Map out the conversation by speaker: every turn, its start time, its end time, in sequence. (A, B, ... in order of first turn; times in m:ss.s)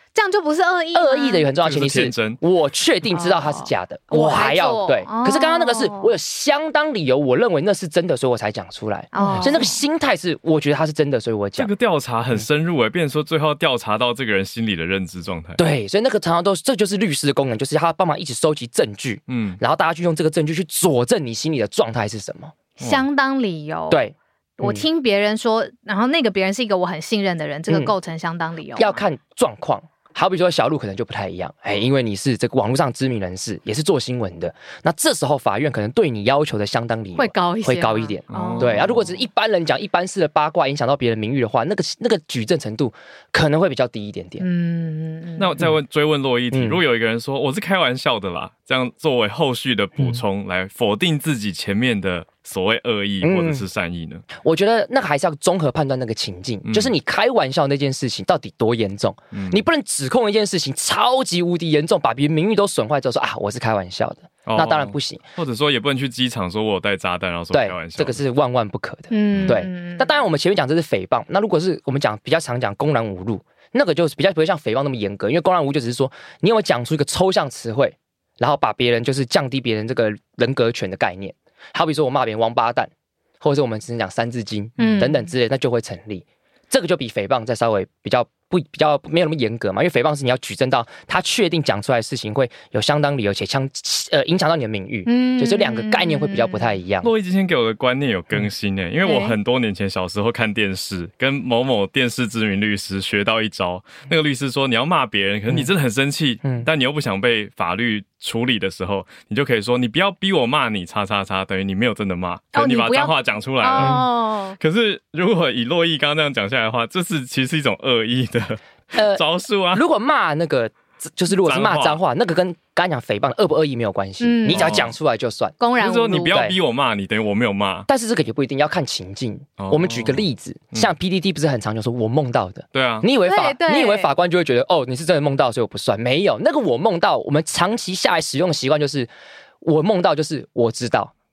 0:00.2-0:01.5 A
0:00.9-0:11.7 B
0:01.6-0:02.4 C
0:03.1-0:06.1 A
0:09.1-0:09.8 A
0:09.2-0:09.5 C
0:11.6-0:15.6 C
0:15.6-0:22.5 B
0:19.3-0:19.6 C
0:22.8-0:24.1 A
0:23.9-0:24.8 B
0:24.6-0:29.0 A
0:27.7-0:27.9 B
0:28.8-0:44.4 B
0:37.2-0:38.9 A
0:38.3-0:39.1 C
0:44.4-0:45.5 A
0:45.4-0:54.3 C
0:46.5-0:46.8 B
0:53.2-0:53.6 B
0:54.4-1:05.2 B
0:56.7-0:56.9 C
0:59.3-0:59.6 C
1:04.4-1:08.2 C
1:07.5-1:37.1 B
1:09.1-1:10.2 A
1:24.8-1:25.1 C
1:24.8-1:25.3 A
1:35.1-1:36.8 A
1:37.0-1:59.8 C
1:39.0-1:39.4 A
1:46.4-1:46.7 B
1:52.5-1:54.6 A
1:53.8-1:54.0 B
1:59.0-2:05.6 B
2:01.4-2:02.0 C
2:04.2-2:04.8 A
2:04.5-2:04.9 C
2:05.6-2:06.4 A
2:05.8-2:07.9 C
2:07.9-2:19.1 B
2:09.6-2:10.9 C
2:12.7-2:13.1 C
2:13.2-2:14.1 A
2:19.6-2:21.1 B